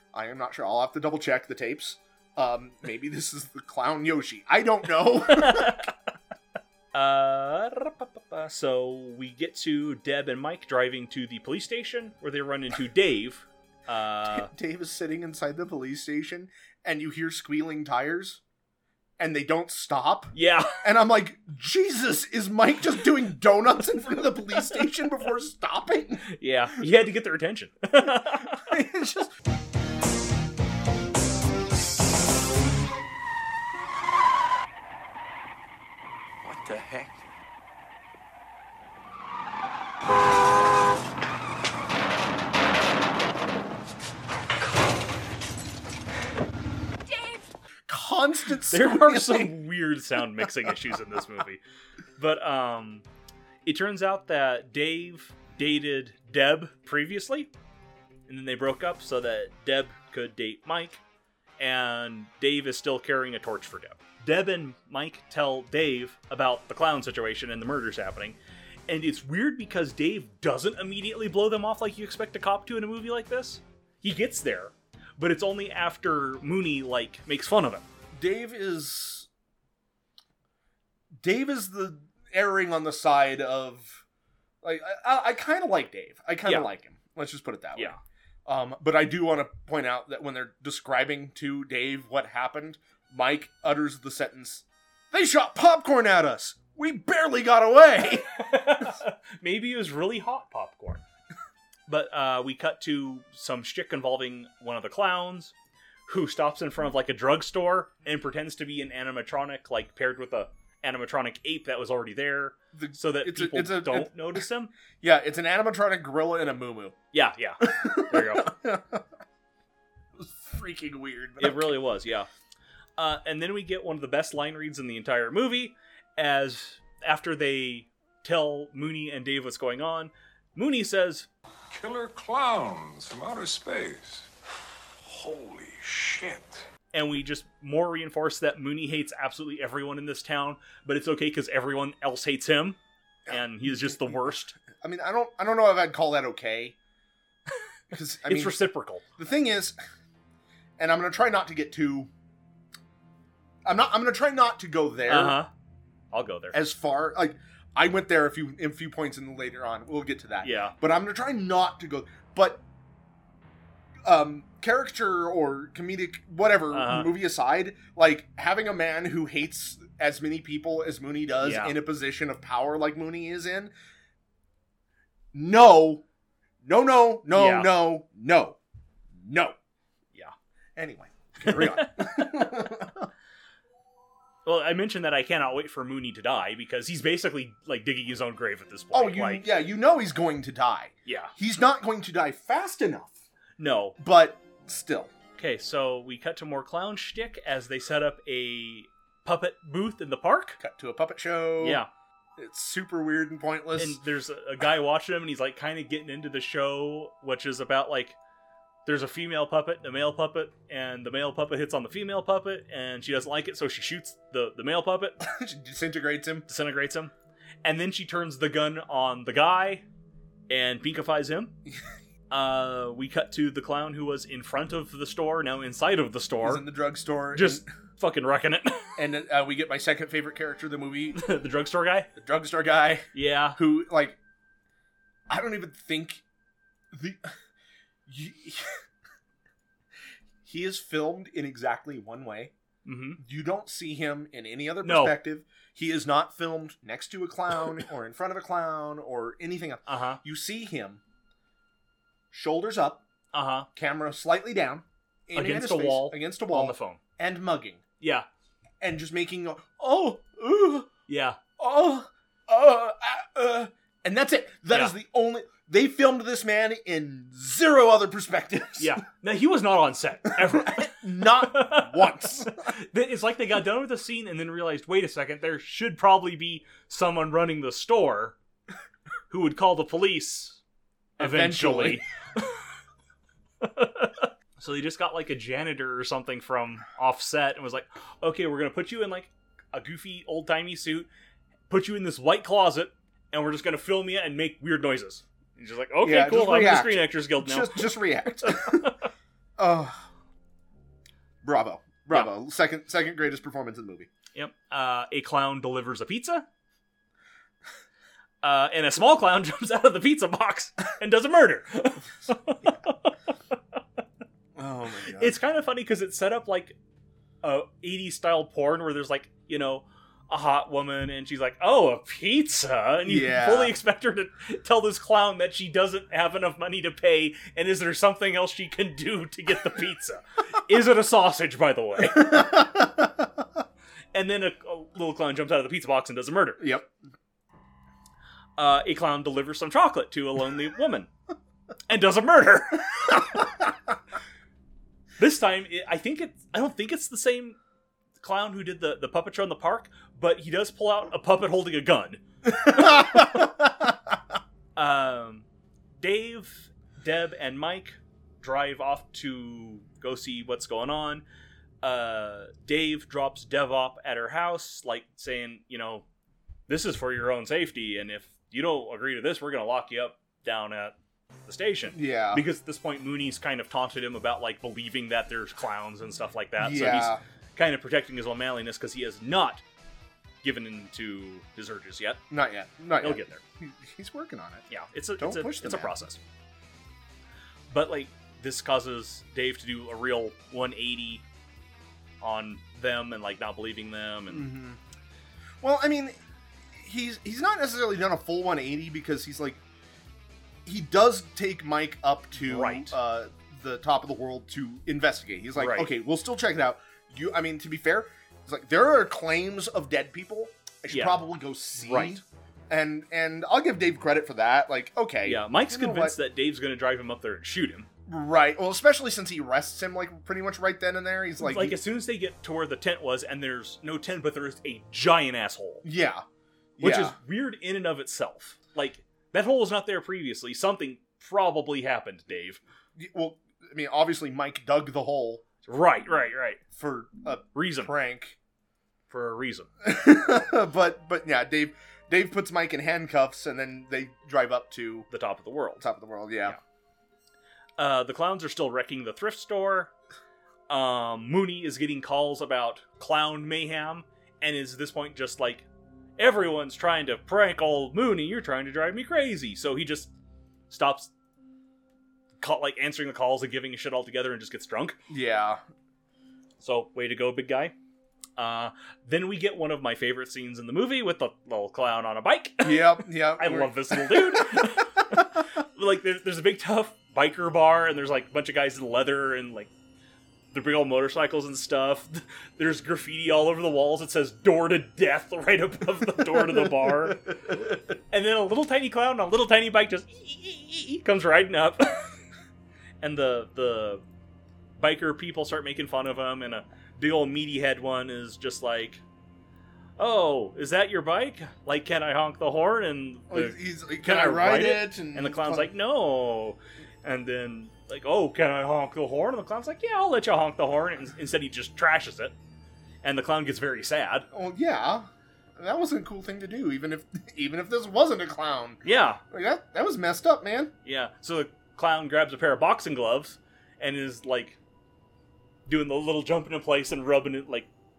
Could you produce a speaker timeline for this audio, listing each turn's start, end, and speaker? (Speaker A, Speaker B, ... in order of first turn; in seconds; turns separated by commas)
Speaker A: 0.1-5.9, Speaker B: 5.3-5.9, Speaker B: 6.9-14.5, Speaker A: 14.3-18.4, Speaker A: 19.2-26.3, Speaker B: 20.3-20.8, Speaker B: 26.3-28.7, Speaker A: 28.1-29.3, Speaker A: 47.9-49.5, Speaker B: 48.7-51.6, Speaker B: 52.2-53.0, Speaker B: 53.6-57.5, Speaker B: 58.3-61.0, Speaker B: 61.6-68.4, Speaker B: 68.9-77.8, Speaker A: 78.1-79.3, Speaker A: 81.2-84.0, Speaker A: 84.6-88.0, Speaker A: 88.5-98.8, Speaker B: 98.3-101.0, Speaker B: 101.9-105.5, Speaker B: 106.1-114.7, Speaker A: 112.7-114.4, Speaker A: 115.0-117.0, Speaker B: 117.1-118.5, Speaker A: 117.6-119.0, Speaker A: 120.2-121.8, Speaker B: 121.4-122.3, Speaker B: 123.0-131.3, Speaker C: 131.7-134.3, Speaker C: 135.0-136.6, Speaker B: 136.9-144.6, Speaker A: 143.3-146.8, Speaker A: 147.9-148.6, Speaker B: 148.2-149.0, Speaker A: 149.2-149.8, Speaker A: 150.8-152.1, Speaker A: 153.7-155.4, Speaker B: 155.1-155.5, Speaker B: 156.1-156.6, Speaker A: 156.5-162.6, Speaker B: 160.4-160.7, Speaker A: 164.1-173.7, Speaker B: 166.7-167.1, Speaker B: 171.4-171.8, Speaker A: 175.3-176.0, Speaker A: 176.6-178.6, Speaker B: 177.3-177.8, Speaker A: 179.2-179.6, Speaker A: 180.8-183.1, Speaker B: 181.5-182.4, Speaker B: 184.4-189.5, Speaker A: 188.9-193.2, Speaker B: 191.1-191.3, Speaker B: 193.6-194.0, Speaker A: 194.0-195.1, Speaker B: 195.4-200.6, Speaker A: 200.6-201.8, Speaker B: 201.6-201.9, Speaker A: 202.4-204.0, Speaker B: 203.8-208.2, Speaker B: 208.9-215.2, Speaker A: 215.2-216.5, Speaker B: 216.5-219.9, Speaker B: 220.5-221.6, Speaker B: 222.3-226.7, Speaker A: 226.4-227.7, Speaker B: 227.3-229.0, Speaker A: 229.0-231.2, Speaker B: 231.2-232.1, Speaker A: 232.2-234.2, Speaker B: 233.1-233.6, Speaker A: 235.3-236.2, Speaker A: 236.9-237.3, Speaker A: 238.1-238.7, Speaker A: 240.4-242.5, Speaker B: 242.8-243.2, Speaker A: 243.2-251.0, Speaker B: 244.8-245.2, Speaker B: 249.9-250.2, Speaker A: 252.3-253.0, Speaker B: 253.3-253.7, Speaker A: 253.8-257.8, Speaker B: 255.3-257.0, Speaker B: 258.0-258.3, Speaker A: 258.8-260.9, Speaker B: 261.1-261.4, Speaker A: 261.6-269.0, Speaker B: 268.8-278.4, Speaker A: 270.4-272.7, Speaker B: 279.3-280.6, Speaker B: 281.2-282.6, Speaker A: 281.2-282.0, Speaker B: 283.6-291.1, Speaker B: 291.7-299.0, Speaker A: 296.0-298.9, Speaker A: 299.6-300.0, Speaker A: 301.4-304.1, Speaker B: 304.4-306.5, Speaker B: 308.4-313.1, Speaker A: 314.6-315.4, Speaker B: 315.1-316.8, Speaker B: 317.4-332.6, Speaker A: 323.1-323.8, Speaker A: 332.0-333.3, Speaker B: 334.1-336.6, Speaker A: 336.6-336.9, Speaker B: 338.6-341.1, Speaker B: 341.9-343.5, Speaker B: 345.2-347.6, Speaker B: 348.2-353.4, Speaker A: 352.5-353.9, Speaker B: 354.8-355.5, Speaker B: 356.0-361.2, Speaker B: 361.8-366.1, Speaker B: 366.7-379.6, Speaker A: 371.9-372.4, Speaker A: 376.6-377.2, Speaker B: 380.4-382.2, Speaker A: 382.3-384.6, Speaker B: 383.0-383.4, Speaker B: 384.7-386.2, Speaker A: 385.2-386.0, Speaker B: 387.7-391.2, Speaker B: 392.2-394.5, Speaker A: 394.3-394.8, Speaker A: 395.6-396.2, Speaker A: 396.7-399.6, Speaker A: 400.6-416.2, Speaker B: 402.4-402.9, Speaker B: 405.6-405.9, Speaker B: 410.9-411.1, Speaker B: 411.8-412.2, Speaker B: 415.2-417.9, Speaker A: 418.1-421.8, Speaker B: 421.4-425.9, Speaker A: 425.8-426.2, Speaker A: 426.8-427.1, Speaker B: 426.8-432.6, Speaker A: 433.0-435.4, Speaker B: 435.6-436.6, Speaker A: 436.8-438.4, Speaker B: 437.6-437.9, Speaker B: 439.1-439.7, Speaker A: 439.8-445.1, Speaker B: 445.1-445.8, Speaker A: 445.8-446.6, Speaker B: 447.8-449.9, Speaker B: 450.7-455.7, Speaker B: 456.2-460.1, Speaker B: 460.7-461.1, Speaker B: 462.4-465.0, Speaker A: 465.1-465.6, Speaker B: 466.6-467.7, Speaker B: 468.4-479.7, Speaker A: 472.6-474.8, Speaker B: 480.5-492.2, Speaker B: 493.0-494.0, Speaker B: 494.8-499.0, Speaker B: 500.0-512.3, Speaker A: 503.3-505.7, Speaker B: 513.0-514.3, Speaker A: 514.3-520.7, Speaker B: 518.8-519.2, Speaker B: 520.9-524.6, Speaker B: 525.7-527.7